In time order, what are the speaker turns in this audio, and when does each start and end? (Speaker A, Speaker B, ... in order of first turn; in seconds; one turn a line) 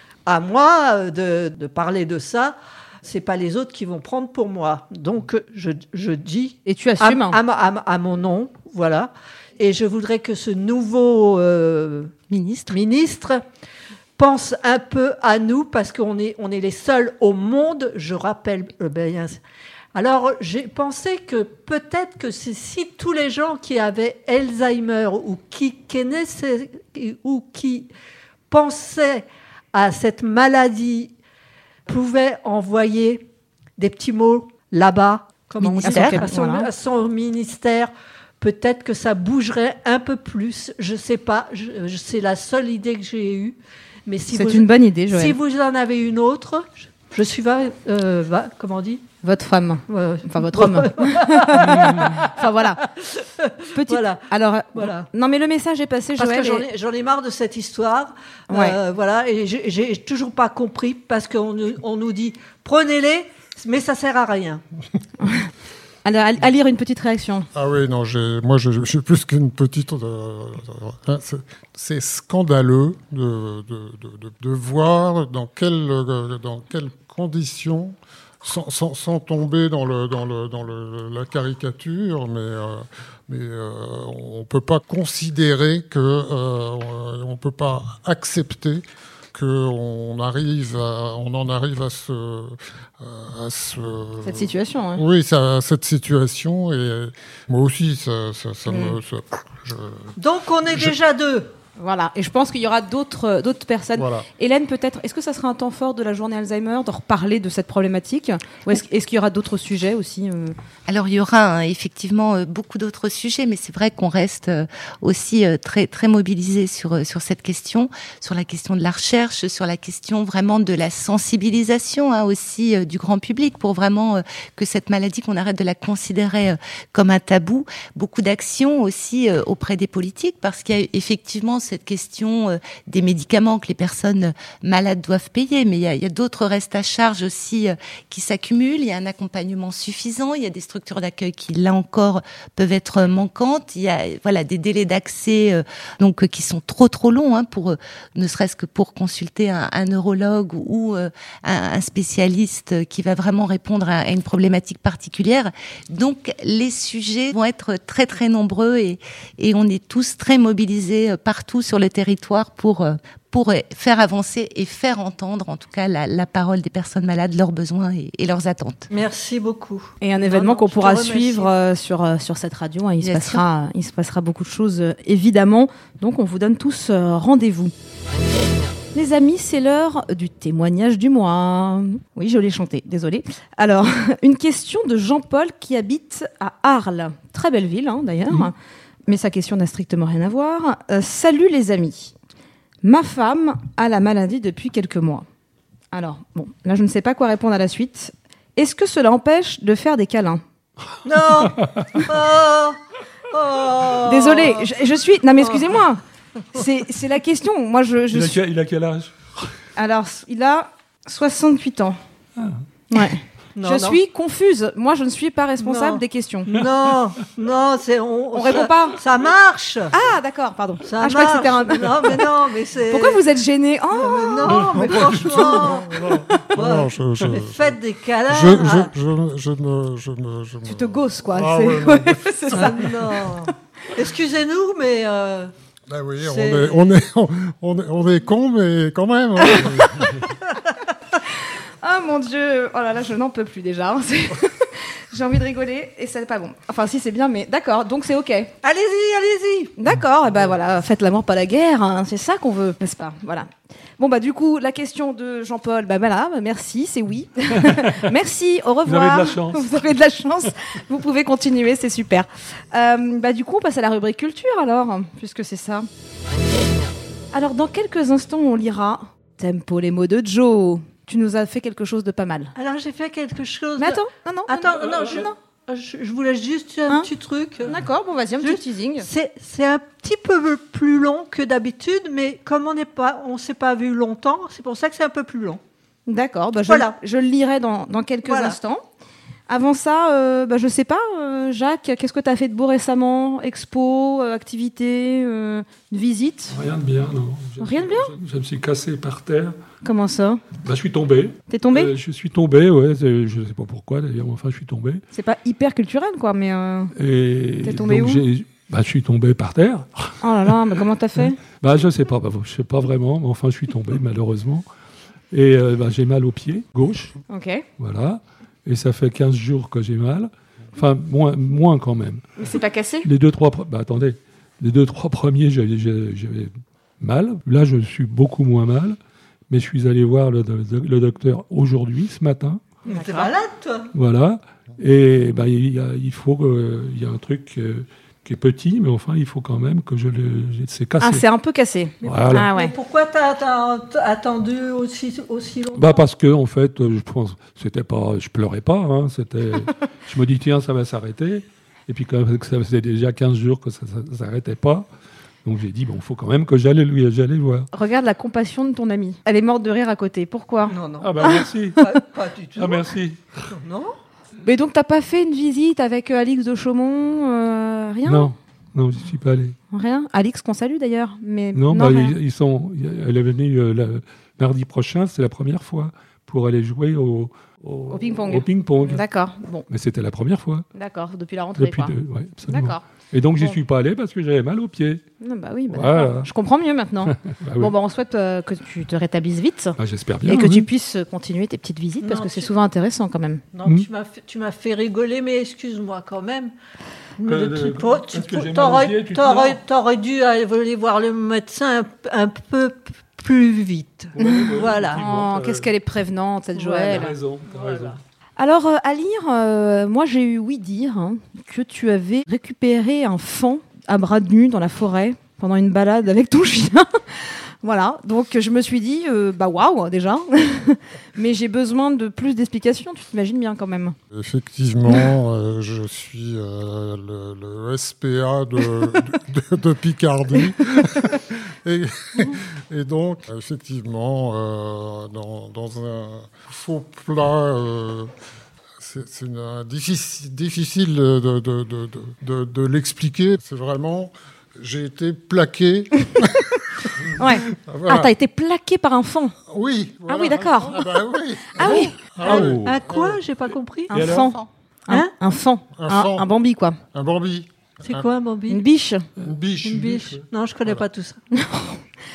Speaker A: 0.2-12.1
Speaker B: 6.7-7.4
Speaker C: 12.3-12.8
Speaker A: 12.7-13.4
Speaker A: 14.2-19.4
Speaker A: 19.9-27.9
Speaker A: 28.5-31.1
Speaker A: 31.9-33.2
Speaker A: 33.8-49.0
Speaker C: 35.6-36.2
Speaker B: 35.8-36.7
Speaker B: 44.3-45.4
Speaker B: 49.2-52.8
Speaker A: 49.9-55.1
Speaker B: 53.7-56.6
Speaker A: 56.2-64.6
Speaker B: 58.5-58.8
Speaker B: 65.2-65.5
Speaker B: 66.0-67.5
Speaker D: 67.5-88.8
Speaker D: 89.3-100.2
Speaker B: 94.2-95.0
Speaker B: 98.7-98.9
Speaker A: 100.2-101.5
Speaker B: 101.8-110.5
Speaker D: 104.0-104.3
Speaker C: 110.9-168.9
Speaker A: 168.9-171.5
Speaker B: 170.0-177.7
Speaker C: 173.0-173.4
Speaker B: 178.9-188.5
Speaker B: 189.1-192.1
Speaker B: 192.8-195.2
Speaker B: 195.9-200.4
Speaker A: 201.0-202.8
Speaker E: 201.5-202.0
Speaker A: 203.3-204.7
Speaker B: 204.1-206.0
Speaker A: 205.4-205.8
Speaker B: 206.5-208.4
Speaker E: 208.1-209.5
Speaker B: 209.8-212.0
Speaker E: 212.4-212.6
Speaker B: 212.9-216.6
Speaker A: 213.6-214.0
Speaker A: 215.6-219.9
Speaker B: 218.3-219.0
Speaker B: 219.9-222.3
Speaker A: 220.8-223.2
Speaker B: 222.9-225.7
Speaker A: 223.9-228.9
Speaker D: 224.9-232.8
Speaker B: 230.7-233.1
Speaker A: 232.5-235.5
Speaker D: 235.9-240.2
Speaker A: 236.2-236.8
Speaker B: 239.4-240.2
Speaker B: 241.8-248.5
Speaker A: 248.6-249.7
Speaker B: 249.8-265.9
Speaker E: 257.6-258.1
Speaker E: 258.8-259.8
Speaker B: 267.3-272.5
Speaker A: 272.6-277.8
Speaker B: 273.8-275.3
Speaker B: 277.6-279.1
Speaker A: 278.4-285.6
Speaker B: 286.1-288.8
Speaker A: 286.7-286.9
Speaker A: 288.2-288.6
Speaker B: 289.5-296.6
Speaker E: 296.5-299.6
Speaker B: 297.6-298.1
Speaker B: 299.8-300.4
Speaker E: 300.6-305.0
Speaker B: 301.5-301.9
Speaker B: 305.1-306.9
Speaker E: 306.9-310.5
Speaker B: 307.6-308.2
Speaker B: 310.2-311.4
Speaker E: 311.4-314.6
Speaker E: 315.3-317.1
Speaker B: 317.3-317.6
Speaker E: 317.8-322.2
Speaker B: 322.4-323.1
Speaker E: 323.0-329.0
Speaker E: 329.5-332.6
Speaker B: 332.9-333.3
Speaker A: 332.9-333.9
Speaker E: 333.9-341.2
Speaker B: 341.0-342.7
Speaker E: 342.0-342.5
Speaker A: 342.0-346.0
Speaker E: 345.8-354.9
Speaker E: 355.4-357.7
Speaker B: 357.7-361.3
Speaker A: 360.7-362.9
Speaker E: 361.0-361.9
Speaker E: 362.6-363.5
Speaker A: 363.5-363.9
Speaker B: 364.4-368.3
Speaker E: 368.0-369.6
Speaker B: 369.7-372.1
Speaker E: 371.5-379.0
Speaker B: 377.9-379.6
Speaker E: 379.7-380.6
Speaker B: 380.7-381.9
Speaker E: 381.6-385.0
Speaker B: 382.5-382.8
Speaker B: 385.2-393.4
Speaker E: 385.7-386.3
Speaker E: 387.1-387.7
Speaker E: 389.8-390.7
Speaker A: 392.0-392.5
Speaker A: 393.5-396.5
Speaker A: 397.2-405.0
Speaker E: 397.2-399.6
Speaker E: 404.1-405.7
Speaker B: 404.2-407.1
Speaker A: 406.6-408.0
Speaker E: 406.9-408.0
Speaker B: 408.4-423.9
Speaker D: 424.1-438.1
Speaker D: 438.8-448.1
Speaker B: 447.1-449.4
Speaker D: 449.5-453.2
Speaker B: 450.1-451.0
Speaker B: 451.6-451.9
Speaker A: 451.6-454.0
Speaker E: 451.8-452.8
Speaker B: 453.9-456.8
Speaker E: 453.9-454.3
Speaker D: 455.7-456.3
Speaker D: 456.9-458.1
Speaker A: 457.8-458.6
Speaker B: 458.5-459.1
Speaker D: 459.2-460.9
Speaker A: 459.6-461.2
Speaker B: 461.3-461.8